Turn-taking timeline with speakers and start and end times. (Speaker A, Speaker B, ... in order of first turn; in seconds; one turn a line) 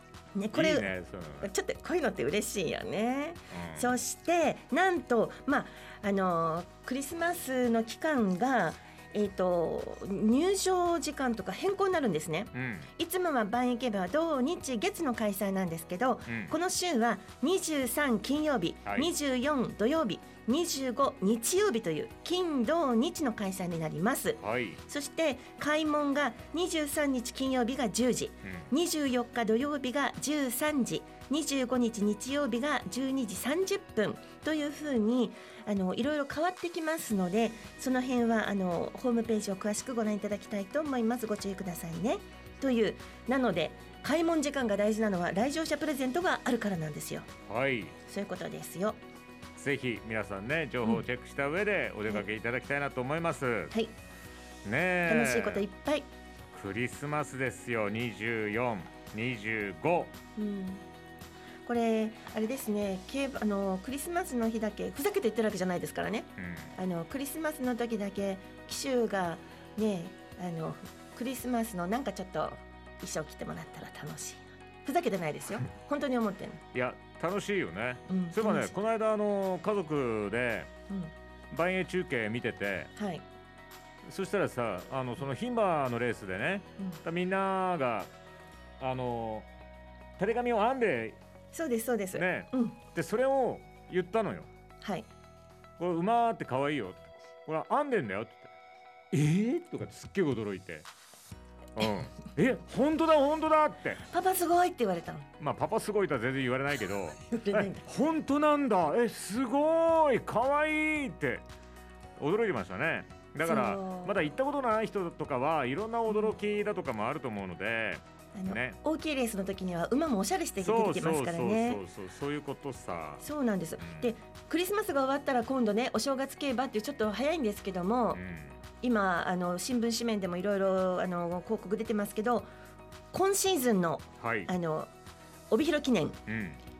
Speaker A: 0.3-47.3
Speaker B: 0.5-1.5
Speaker B: 3.5-3.9
Speaker B: 12.5-12.9
Speaker B: 16.3-16.6
Speaker B: 24.4-24.8
Speaker B: 47.5-48.0
Speaker A: 48.1-49.0
Speaker B: 49.6-53.7
Speaker B: 54.6-55.6
Speaker A: 55.1-56.1
Speaker B: 56.5-60.1
Speaker A: 60.4-60.8
Speaker A: 61.7-76.6
Speaker B: 66.4-66.7
Speaker B: 76.7-80.7
Speaker A: 78.1-78.7
Speaker B: 81.5-82.9
Speaker A: 83.0-83.2
Speaker B: 84.1-88.1
Speaker B: 88.8-89.5
Speaker B: 90.2-91.2
Speaker A: 91.5-92.8
Speaker B: 92.1-94.5
Speaker A: 94.8-95.1
Speaker B: 95.8-98.5
Speaker B: 99.1-100.9
Speaker B: 101.8-104.0
Speaker A: 104.1-105.3
Speaker B: 105.4-111.4
Speaker A: 107.3-107.9
Speaker B: 112.2-118.8
Speaker A: 113.4-114.2
Speaker A: 116.1-116.3
Speaker A: 118.3-121.8
Speaker B: 120.6-123.2
Speaker A: 123.2-128.2
Speaker B: 123.8-124.1
Speaker B: 128.1-128.6
Speaker A: 128.8-132.5
Speaker A: 133.1-134.9
Speaker B: 134.2-134.5
Speaker A: 135.5-136.2
Speaker B: 136.3-136.6